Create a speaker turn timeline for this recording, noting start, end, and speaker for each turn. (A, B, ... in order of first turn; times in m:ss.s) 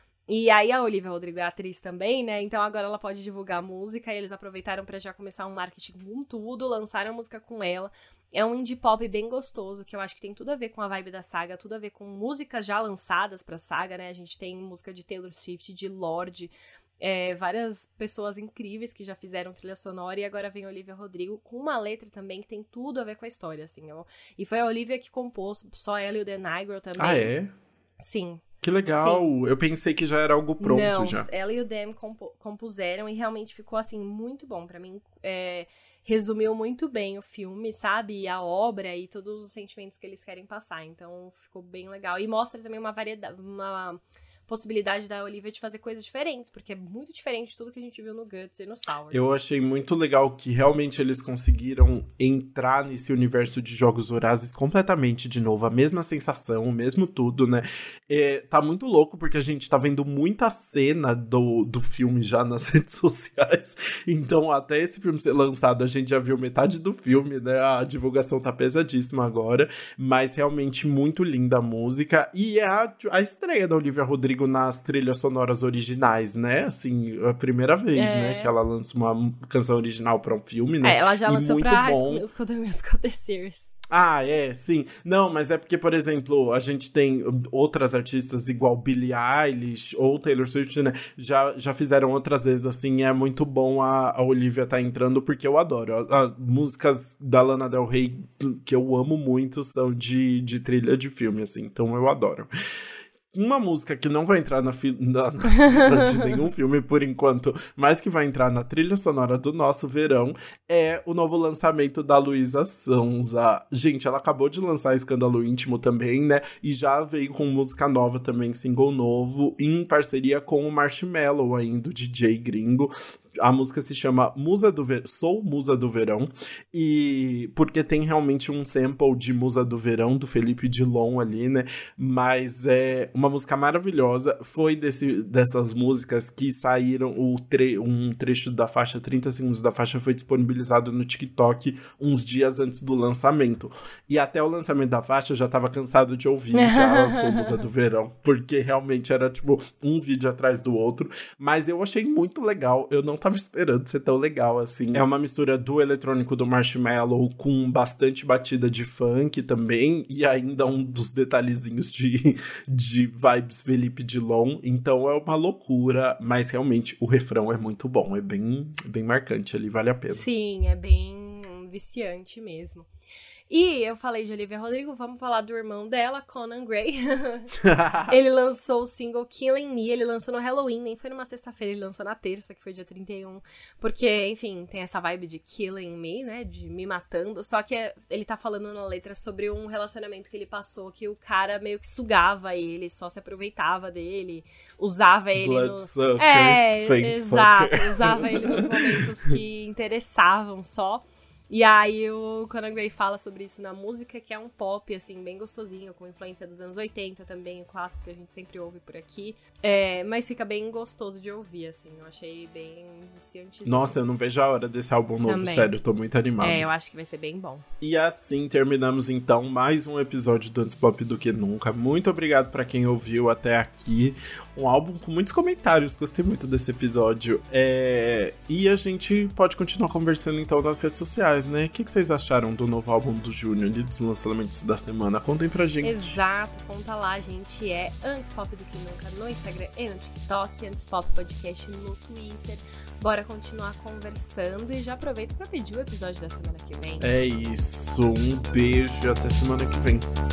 0:00.3-0:27.3 A
0:27.0-0:27.5 B
0:28.0-0:29.3 A
0:28.6-0:31.3 B
0:30.6-0:49.2 A
0:49.1-1:22.2 B
1:18.0-1:18.5 A
1:20.8-1:23.7 A
1:23.9-1:42.5 B
1:43.3-2:50.2 B
1:45.6-1:46.3 A
2:26.5-2:27.6 A
2:50.1-2:52.9 A
2:53.5-2:57.5 A
2:57.6-2:58.1 B
2:58.1-3:34.0 A
3:15.4-3:19.4 B
3:33.7-3:36.7 B
3:35.3-3:35.8 A
3:36.4-3:37.6 A
3:37.8-3:56.2 B
3:55.8-4:07.1 A
4:07.0-4:10.1 B